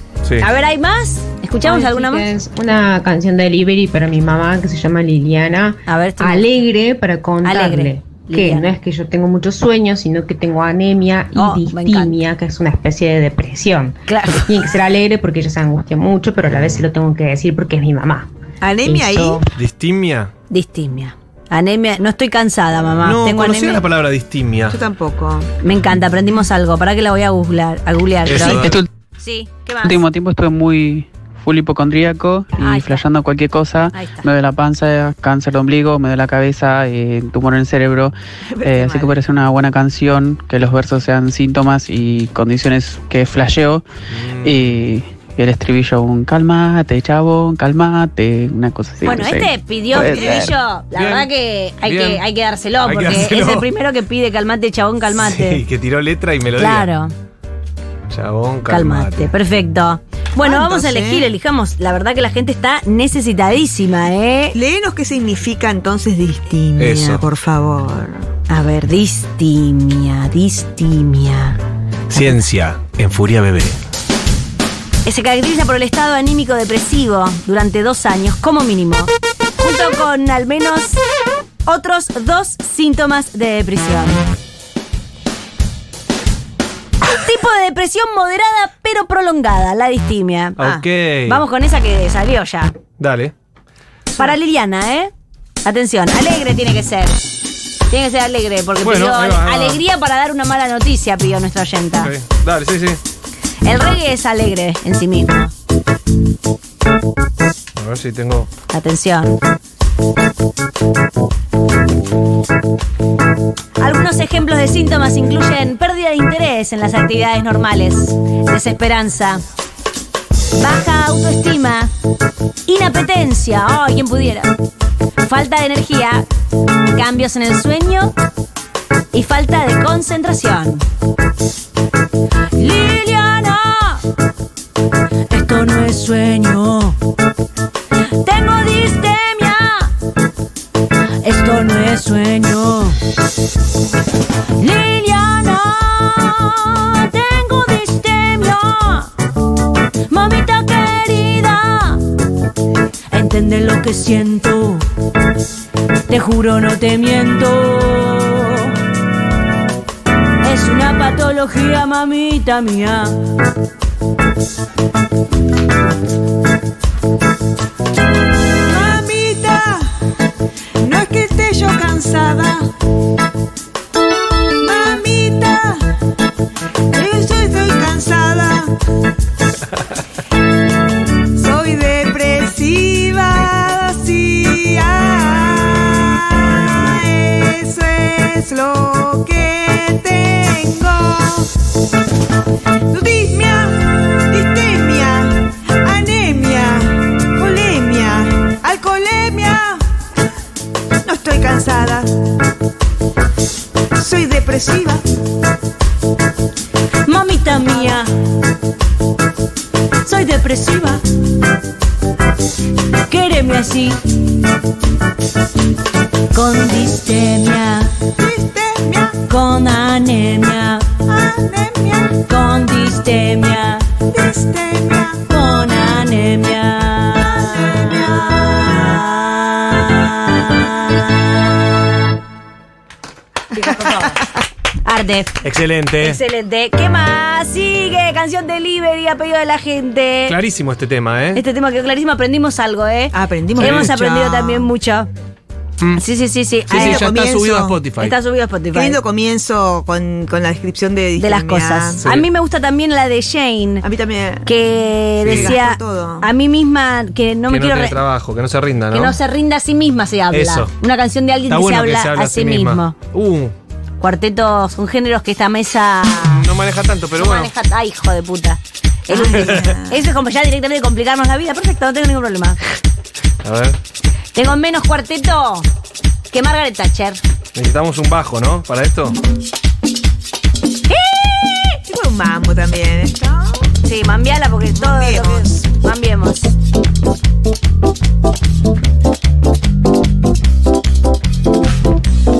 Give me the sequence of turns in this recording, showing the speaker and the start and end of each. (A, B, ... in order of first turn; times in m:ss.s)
0:00.4-0:02.3 A
0:01.6-0:18.3 B
0:05.9-0:06.7 A
0:07.4-0:08.7 A
0:11.4-0:12.2 A
0:14.1-0:14.5 A
0:18.6-0:19.4 C
0:18.8-0:19.4 B
0:19.6-0:20.3 D
0:20.5-0:23.8 A
0:23.0-0:24.8 D
0:24.7-0:25.5 C
0:25.6-0:30.0 A
0:28.3-0:28.8 D
0:28.5-0:28.9 E
0:29.8-0:43.8 E
0:32.6-0:33.0 A
0:33.9-0:34.3 A
0:38.5-0:39.2 C
0:44.1-0:44.7 D
0:44.4-0:50.5 E
0:49.0-0:55.6 A
0:50.0-0:50.5 C
0:50.9-0:51.3 D
0:51.8-0:52.2 D
0:52.8-0:53.7 D
0:55.1-0:56.9 D
0:56.6-0:57.1 A
0:58.1-0:59.3 D
0:58.7-1:04.6 A
1:00.4-1:01.3 C
1:04.5-1:08.3 C
1:06.8-1:07.3 D
1:08.5-1:11.6 A
1:12.1-1:13.8 D
1:15.0-1:21.0 A
1:21.7-1:24.2 A
1:27.0-1:30.6 A
1:30.6-1:31.4 D
1:31.3-1:32.7 A
1:33.0-1:33.3 D
1:34.2-1:35.1 A
1:35.6-1:37.2 A
1:37.9-1:42.1 A
1:38.8-1:39.8 D
1:42.0-1:43.0 D
1:43.6-1:45.5 A
1:47.8-1:48.5 D
1:48.7-1:49.4 A
1:53.8-1:59.4 A
2:00.6-2:01.9 A
2:02.7-2:04.5 A
2:05.2-2:06.3 A
2:06.9-2:08.1 A
2:09.1-2:10.9 A
2:12.6-2:14.0 A
2:15.3-2:17.0 A
2:18.2-2:19.9 A
2:21.2-2:23.0 A
2:24.6-2:29.1 A
2:30.1-2:32.0 A
2:33.1-2:34.9 A
2:36.1-2:38.8 A
2:40.4-2:43.2 A
2:48.7-2:49.9 C
2:50.8-2:52.7 C
2:54.6-2:55.9 C
2:56.9-2:58.7 C
3:01.4-3:11.5 C
3:12.9-3:19.8 C
3:21.0-3:22.1 C
3:24.0-3:25.0 C
3:27.0-3:28.1 A
3:30.0-3:31.0 A
3:33.1-3:34.1 A
3:36.3-3:37.9 A
3:38.2-3:39.2 C
3:39.3-3:40.9 A
3:41.1-3:42.2 C
3:42.3-3:43.9 A
3:44.1-3:45.2 C
3:45.3-3:50.6 A
3:47.2-3:48.4 C
3:53.5-3:54.2 A
3:53.8-3:54.1 C
3:54.8-3:55.4 A
3:55.4-3:56.2 D
3:56.0-4:00.4 A
4:00.3-4:01.4 D
4:01.3-4:05.1 A
4:03.1-4:04.7 C
4:03.6-4:04.0 D
4:05.9-4:07.1 A
4:06.7-4:07.8 C
4:06.7-4:08.2 D
4:08.0-4:09.0 A
4:08.7-4:12.0 C
4:11.2-4:13.8 A
4:12.0-4:12.3 D
4:13.8-4:14.5 C
4:14.4-4:18.0 A
4:15.2-4:16.3 C
4:15.2-4:15.6 D
4:17.5-4:19.2 D
4:18.9-4:23.0 A
4:20.3-4:20.7 D
4:21.5-4:23.5 D
4:24.0-4:26.5 A
4:26.3-4:27.5 D
4:27.2-4:32.6 A
4:29.1-4:30.0 C
4:29.3-4:29.6 D
4:33.4-4:33.8 D
4:34.3-4:35.7 A
4:36.3-4:37.2 A
4:37.6-4:39.2 D
4:40.9-4:41.8 A
4:41.9-4:43.7 C
4:43.8-4:46.5 A
4:44.7-4:45.6 C